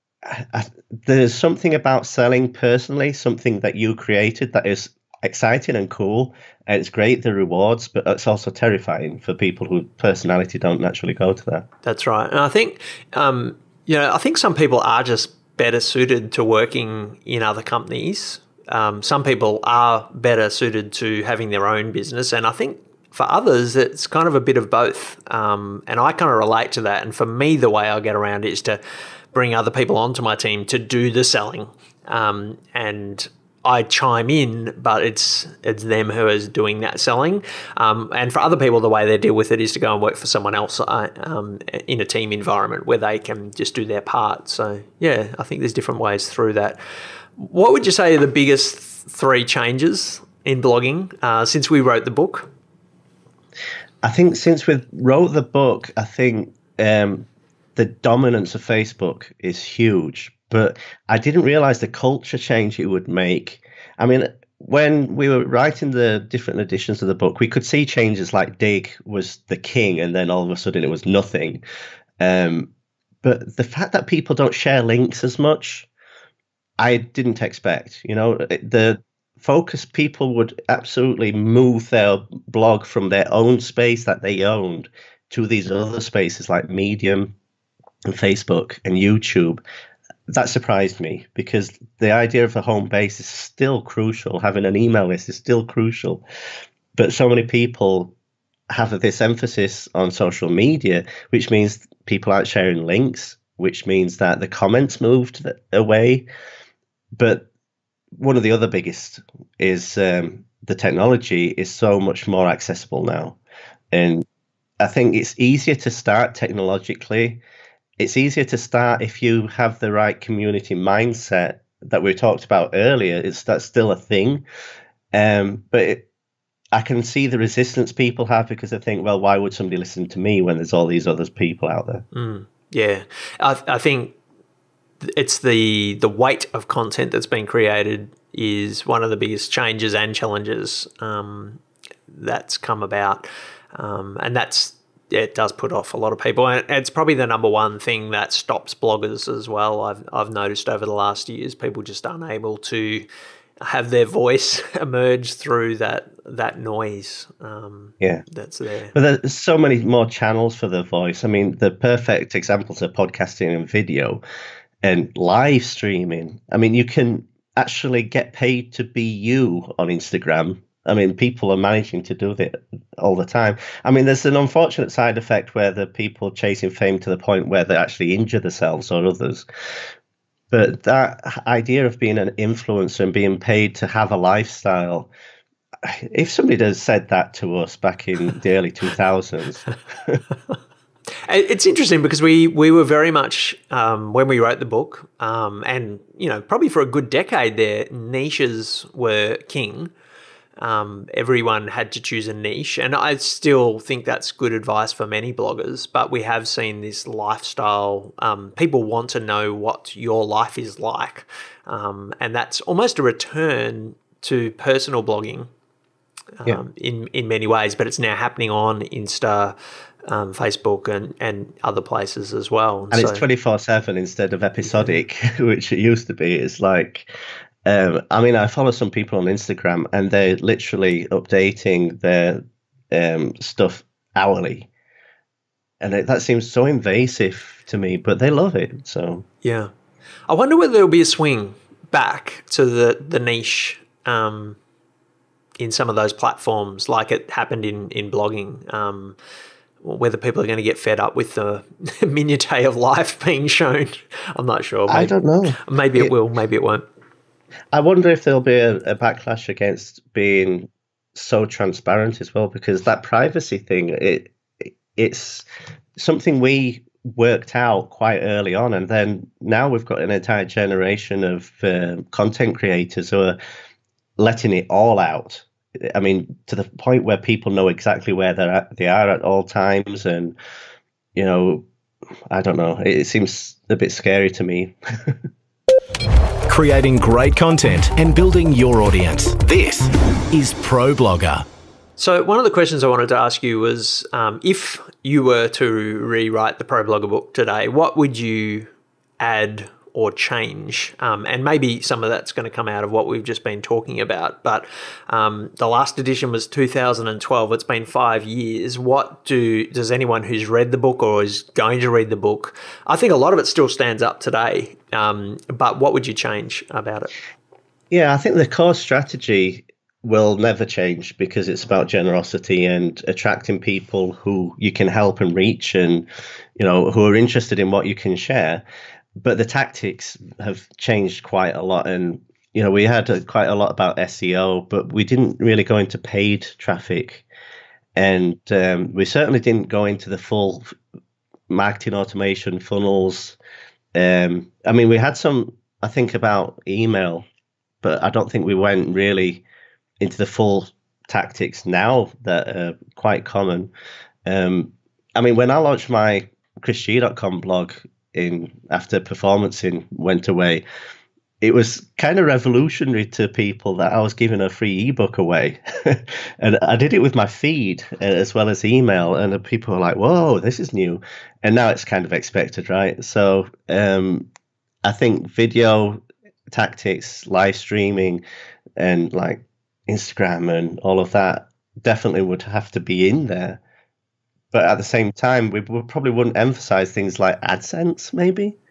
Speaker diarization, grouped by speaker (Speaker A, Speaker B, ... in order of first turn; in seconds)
Speaker A: 0.2-11.7, 54.0-71.6, 72.2-72.7, 73.2-75.9, 76.8-87.3, 88.1-89.6, 90.3-96.2, 97.0-98.1, 98.7-106.3, 107.1-107.5, 108.2-113.4, 113.9-114.2, 114.8-117.4, 118.0-124.4, 125.1-126.0, 126.7-132.0, 158.9-164.2, 164.8-179.4, 180.5-185.1, 185.8-190.2, 222.9-227.1, 227.6-234.7, 235.8-239.2, 254.9-256.1, 257.7-265.4, 266.0-273.4, 274.2-280.4, 281.1-281.6, 282.3-285.2, 317.9-328.6, 329.2-337.2, 337.9-340.7, 341.5-343.4, 343.9-347.2, 347.8-349.4, 350.0-353.7, 354.2-360.6, 361.4-374.3, 374.8-378.2, 378.8-383.6, 384.5-388.6
Speaker B: 11.8-28.8, 29.3-46.8, 47.4-52.5, 132.1-134.1, 135.0-153.1, 153.6-158.9, 191.2-199.9, 200.6-215.5, 216.4-219.5, 220.1-223.2, 224.6-224.9, 239.4-239.7, 240.3-244.6, 245.6-249.2, 249.8-256.8, 292.0-317.1
Speaker C: 286.5-291.4